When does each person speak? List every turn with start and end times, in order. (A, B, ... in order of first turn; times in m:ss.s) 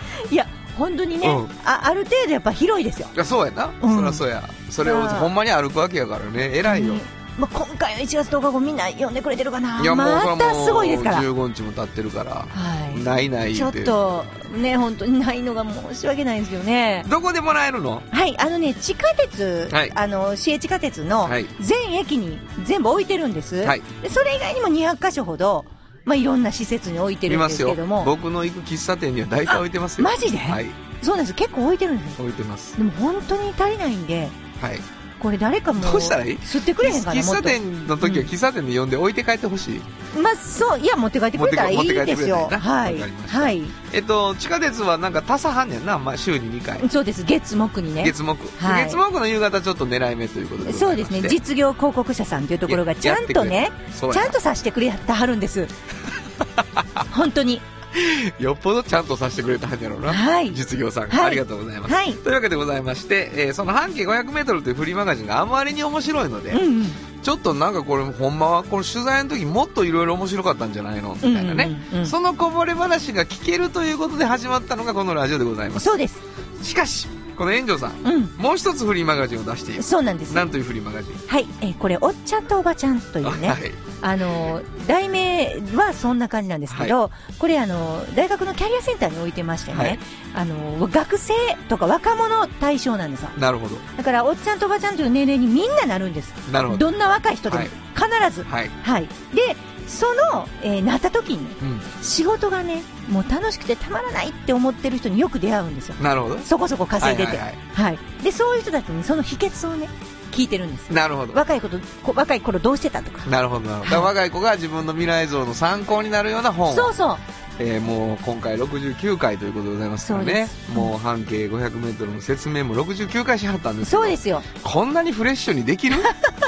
0:00.3-0:03.1 A
0:01.2-0:01.5 B
0:03.1-0:07.0 B
0:03.8-0:04.2 A
0:04.8-0:05.3 A
0:06.6-0:11.2 A
0:09.8-0:13.9 B
0:12.5-0:17.1 A
0:17.0-0:18.1 B
0:18.1-0:28.1 A
0:19.7-0:20.0 B
0:21.2-0:21.5 B
0:27.3-0:30.8 B
0:29.5-0:32.2 A
0:32.2-0:32.8 B
0:32.8-0:34.4 A
0:34.6-0:34.8 B
0:35.2-0:38.3 A
0:35.8-0:39.9 B
0:40.1-0:43.7 A
0:41.3-0:46.9 B
0:46.8-0:49.0 A
0:48.0-0:51.4 B
0:50.6-0:55.7 A
0:52.7-0:54.4 B
0:56.4-0:57.0 B
0:57.1-0:57.6 A
0:57.9-1:16.0 B
1:00.0-1:02.2 A
1:06.5-1:07.0 A
1:11.2-1:12.1 A
1:15.7-1:16.2 A
1:16.6-1:21.2 B
1:18.0-1:18.3 A
1:19.8-1:20.5 A
1:21.3-1:33.4 A
1:23.2-1:23.8 B
1:26.7-1:27.0 B
1:29.7-1:30.0 B
1:33.4-1:33.8 B
1:34.0-1:54.1 A
1:36.5-1:36.9 B
1:37.5-1:37.7 B
1:38.4-1:38.7 B
1:41.6-1:41.8 B
1:46.0-1:47.6 B
1:50.9-1:51.4 B
1:53.2-1:56.9 B
1:56.7-1:57.2 A
1:57.6-2:06.1 B
2:00.0-2:00.9 A
2:03.8-2:04.5 A